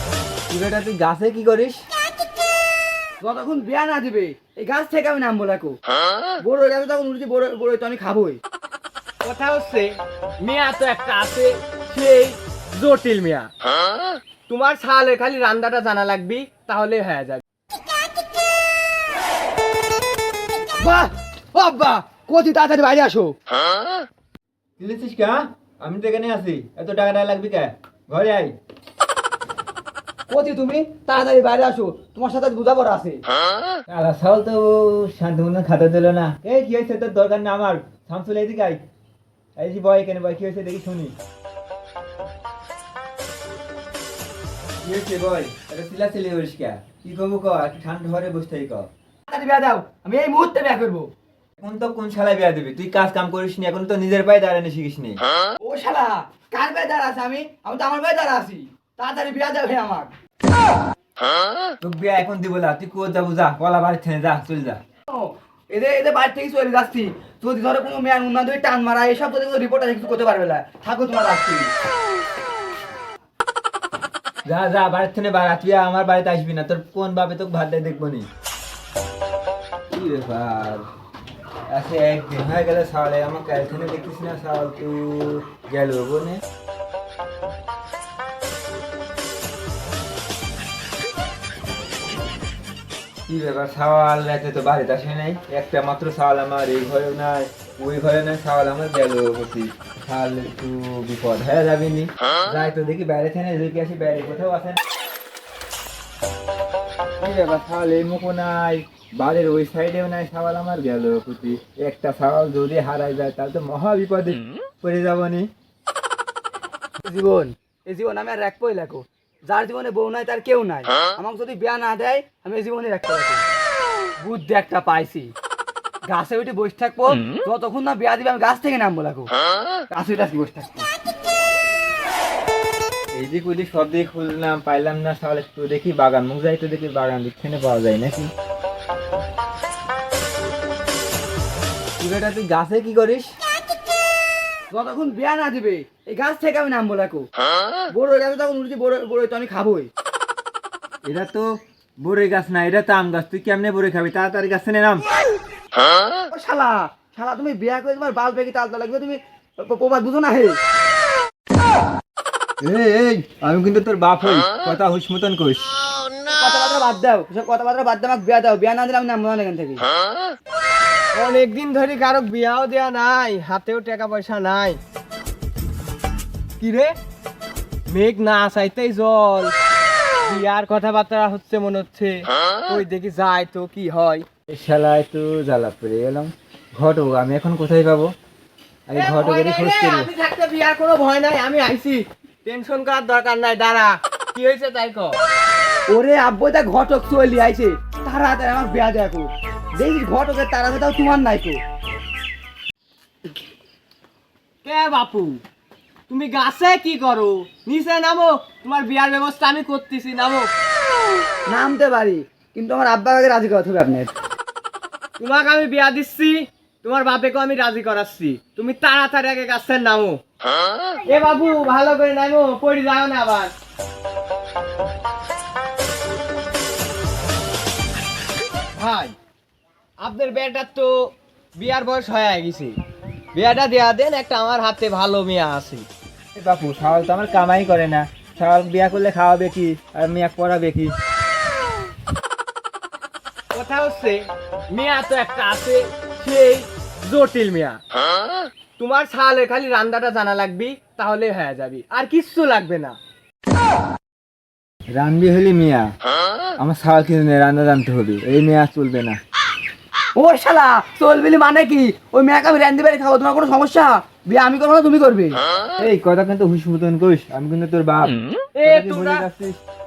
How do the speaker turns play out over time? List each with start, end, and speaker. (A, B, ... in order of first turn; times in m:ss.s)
0:00.5-0:01.8 A
0:03.2-0:05.8 B
0:06.4-0:08.4 B
0:09.2-0:13.5 C
0:14.5-0:17.4 C
0:20.8-0:23.4 B
0:24.8-0:28.5 A
0:30.3-0:33.2 B
0:33.9-0:38.8 A
0:39.6-0:41.1 A
0:44.8-0:48.9 A
0:49.3-0:51.1 B
0:51.6-0:55.2 A
0:55.6-1:00.1 B
1:01.8-1:04.8 A
1:05.1-1:11.7 B
1:14.5-1:18.3 A
1:19.9-1:20.9 A
1:21.7-1:26.4 A
1:33.3-1:44.8 A
1:47.2-1:55.5 A
1:57.0-2:03.4 B
2:04.2-2:05.3 B
2:06.1-2:09.3 B
2:09.9-2:10.9 B
2:13.1-2:18.3 A
2:22.0-2:23.3 A
2:24.7-2:27.3 B
2:27.9-2:29.9 B
2:31.0-2:35.1 A
2:36.3-2:40.6 B
2:42.6-2:45.7 A
2:46.3-2:49.8 B
2:51.1-2:54.8 C
2:56.6-2:57.0 C
2:57.9-2:59.5 C
3:00.2-3:04.3 C
3:04.5-3:08.1 A
3:08.9-3:10.1 A
3:09.0-3:15.2 C
3:15.9-3:21.6 B
3:24.6-3:25.4 C
3:26.1-3:30.5 C
3:31.5-3:34.1 B
3:35.2-3:40.2 C
3:41.1-3:43.5 C
3:48.8-3:49.2 C
3:50.0-3:52.8 C
3:53.3-3:55.9 C
3:56.4-4:01.0 A
4:03.5-4:07.8 C
4:08.8-4:13.0 C
4:14.9-4:15.9 A
4:16.6-4:19.2 A
4:20.2-4:25.4 B
4:25.8-4:29.6 A
4:28.6-4:29.3 C